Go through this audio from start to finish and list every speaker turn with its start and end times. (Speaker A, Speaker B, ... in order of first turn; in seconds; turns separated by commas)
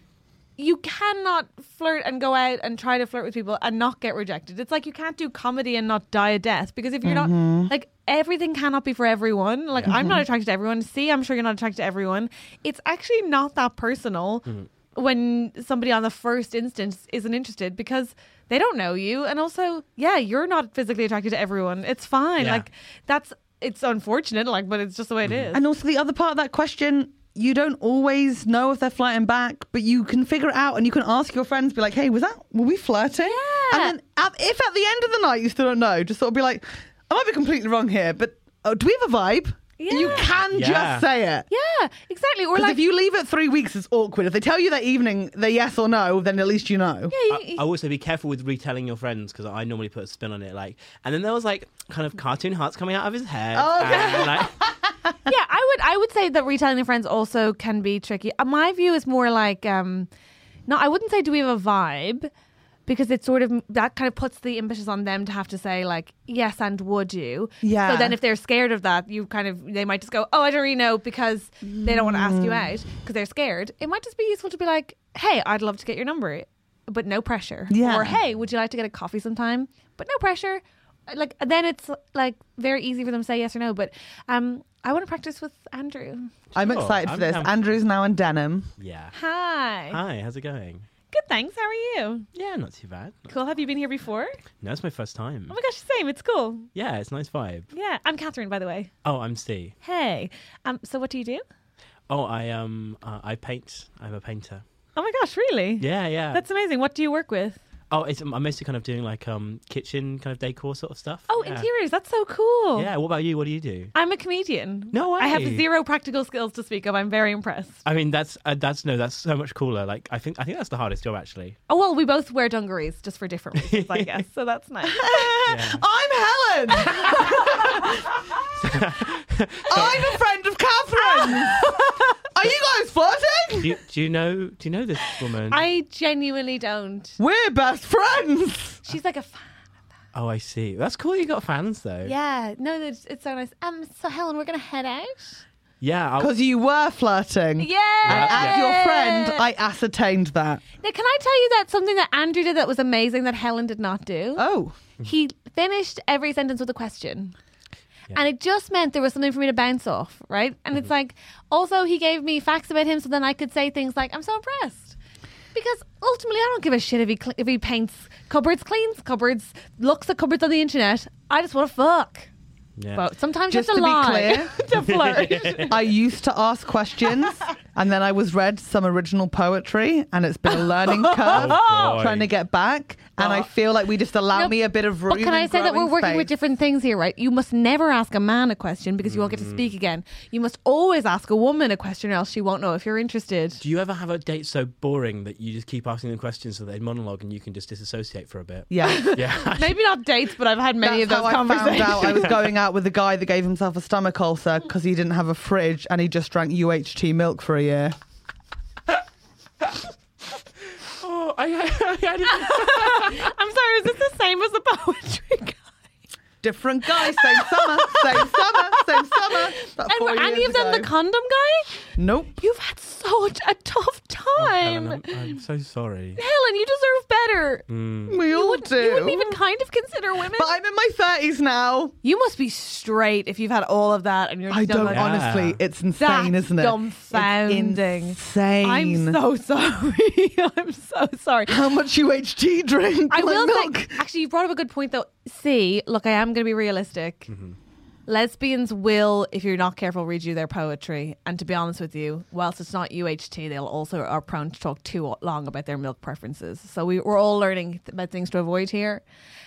Speaker A: 0.6-14.4, Speaker B: 7.0-7.7, Speaker B: 9.9-10.2, Speaker A: 14.9-25.6, Speaker C: 22.4-22.7, Speaker C: 25.3-25.5, Speaker B: 25.5-41.5, Speaker A: 33.2-34.0, Speaker A: 39.8-40.3, Speaker C: 40.0-41.0, Speaker A: 41.5-42.8, Speaker B: 42.5-47.1, Speaker A: 47.1-47.7, Speaker C: 47.3-54.5, Speaker B: 53.5-55.1, Speaker A: 53.8-54.3, Speaker A: 55.3-60.1, Speaker A: 60.7-62.3, Speaker A: 62.9-86.3, Speaker B: 67.6-68.2, Speaker B: 71.6-72.7, Speaker B: 77.7-78.2, Speaker B: 86.5-88.7, Speaker C: 86.6-87.8, Speaker C: 88.8-89.1, Speaker A: 89.1-90.0, Speaker C: 89.9-90.8, Speaker A: 91.1-92.3, Speaker C: 92.3-93.3, Speaker A: 93.3-94.4, Speaker C: 94.6-95.5, Speaker A: 95.5-96.7, Speaker C: 96.7-97.7, Speaker A: 97.7-98.9, Speaker C: 99.0-99.8, Speaker A: 99.8-101.4, Speaker C: 102.1-104.6, Speaker A: 105.0-107.6, Speaker C: 105.8-106.4, Speaker C: 107.9-111.7, Speaker A: 111.3-112.9, Speaker C: 112.8-113.9, Speaker A: 114.0-117.8, Speaker C: 114.9-115.6, Speaker C: 117.8-121.6, Speaker A: 121.7-125.3, Speaker C: 123.6-124.2, Speaker B: 124.8-128.0, Speaker C: 125.5-125.8, Speaker C: 128.6-130.0, Speaker B: 129.7-131.7, Speaker A: 131.2-132.1, Speaker B: 132.3-133.7, Speaker C: 133.6-135.6, Speaker A: 135.5-137.2, Speaker B: 137.2-138.8, Speaker A: 138.8-139.5, Speaker C: 140.1-142.1, Speaker A: 142.0-145.4, Speaker C: 145.8-146.3, Speaker B: 146.2-150.6, Speaker A: 147.6-149.4, Speaker C: 148.1-148.7, Speaker A: 150.8-154.4, Speaker B: 154.4-154.8, Speaker A: 155.0-157.3, Speaker A: 158.1-164.9, Speaker A: 165.5-172.3, Speaker C: 172.8-173.1, Speaker A: 172.9-175.8, Speaker B: 173.5-174.5, Speaker C: 174.6-175.7, Speaker B: 175.7-186.3, Speaker A: 181.3-181.9, Speaker C: 181.3-182.3, Speaker C: 183.2-183.5, Speaker A: 185.1-193.6, Speaker C: 189.0-189.7, Speaker C: 193.6-199.8, Speaker B: 198.7-199.1, Speaker A: 198.8-202.4, Speaker B: 200.8-207.9, Speaker C: 211.0-213.3, Speaker A: 212.3-215.7, Speaker B: 216.4-220.9, Speaker A: 217.2-218.3, Speaker A: 219.8-221.7, Speaker B: 222.0-222.4, Speaker A: 222.4-225.2, Speaker C: 224.4-226.2, Speaker A: 226.2-227.6, Speaker C: 227.7-228.2, Speaker B: 228.1-229.4, Speaker A: 228.3-230.5, Speaker B: 230.3-231.9, Speaker A: 232.0-235.1, Speaker B: 234.5-239.2, Speaker C: 234.8-235.6, Speaker A: 236.0-241.6, Speaker B: 241.5-244.0, Speaker A: 243.1-247.3, Speaker C: 247.3-247.6, Speaker A: 248.1-259.0